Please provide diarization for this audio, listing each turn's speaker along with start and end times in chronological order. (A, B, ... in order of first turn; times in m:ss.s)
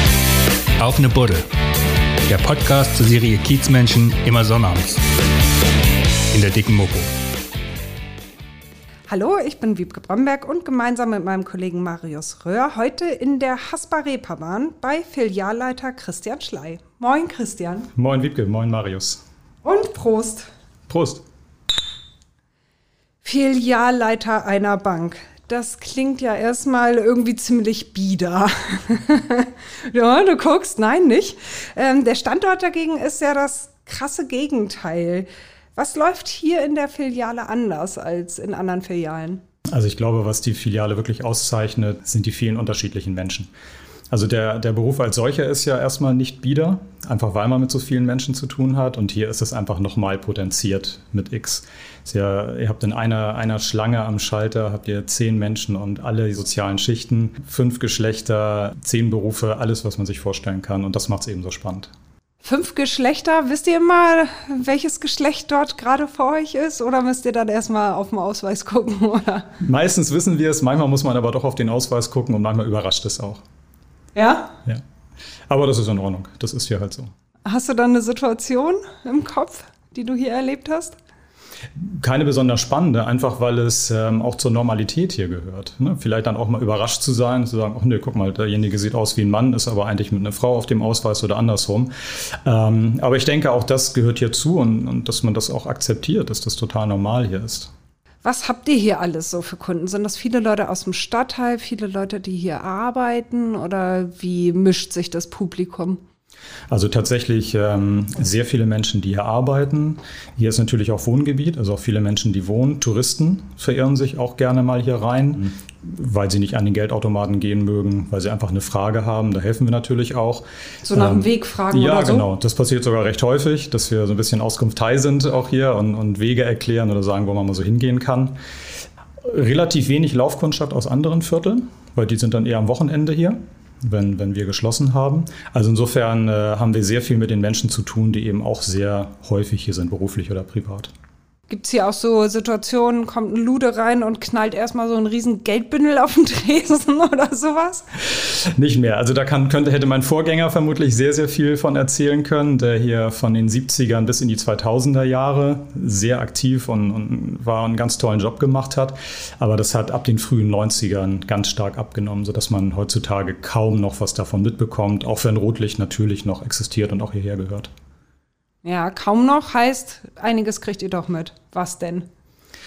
0:00.8-0:01.5 A
0:02.3-0:05.0 A
0:06.3-0:07.1 A
0:09.1-0:17.9 B
0:18.0-0:19.2 C
0:19.6-0:20.5 B
0:20.9-0:21.2 C
0:23.2-0:39.4 B
0:39.7-0:43.5 C
0:44.1-1:01.9 C
1:02.4-1:09.6 B
1:09.6-1:13.4 C
1:14.2-1:14.6 B
1:15.5-1:17.1 C
1:17.4-1:21.0 B
1:21.8-1:37.7 C
1:38.2-1:46.0 B
1:46.7-2:08.4 C
2:00.8-2:02.3 B
2:09.2-2:20.9 C
2:21.5-2:27.9 B
2:28.1-2:47.7 C
2:48.6-2:52.1 B